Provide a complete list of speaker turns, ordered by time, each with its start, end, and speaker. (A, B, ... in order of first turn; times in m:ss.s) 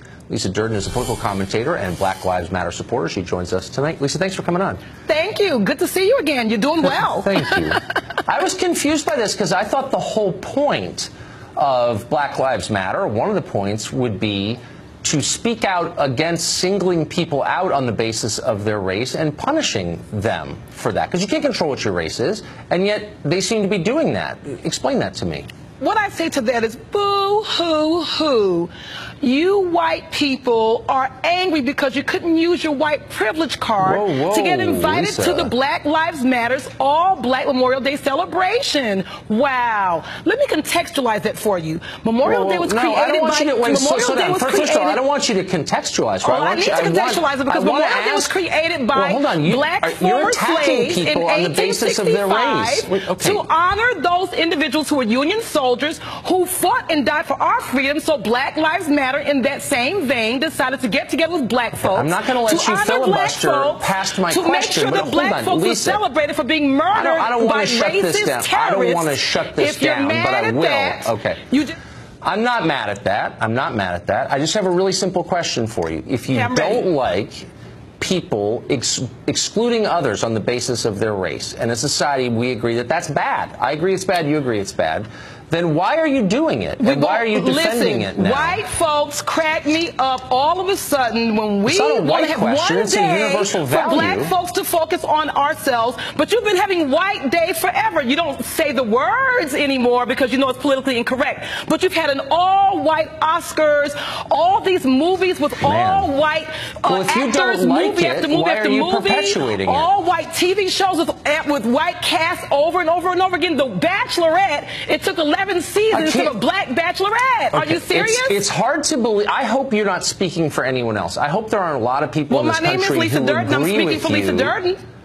0:00.3-0:04.8 A
0:05.1-0:07.8 B
0:06.8-0:25.5 A
0:25.8-0:28.7 B
0:29.2-0:45.0 B
0:33.8-0:35.5 A
0:42.2-0:48.3 A
0:46.2-1:11.8 B
0:48.9-0:53.4 A
1:01.8-1:06.0 A
1:06.9-1:11.4 A
1:12.2-1:17.5 A
1:16.3-1:16.9 B
1:18.0-1:28.6 A
1:26.8-1:58.4 B
1:31.6-1:34.3 A
1:45.6-1:46.1 A
1:46.8-1:49.9 A
1:55.9-1:56.4 A
1:57.5-2:04.6 A
2:02.3-2:04.8 B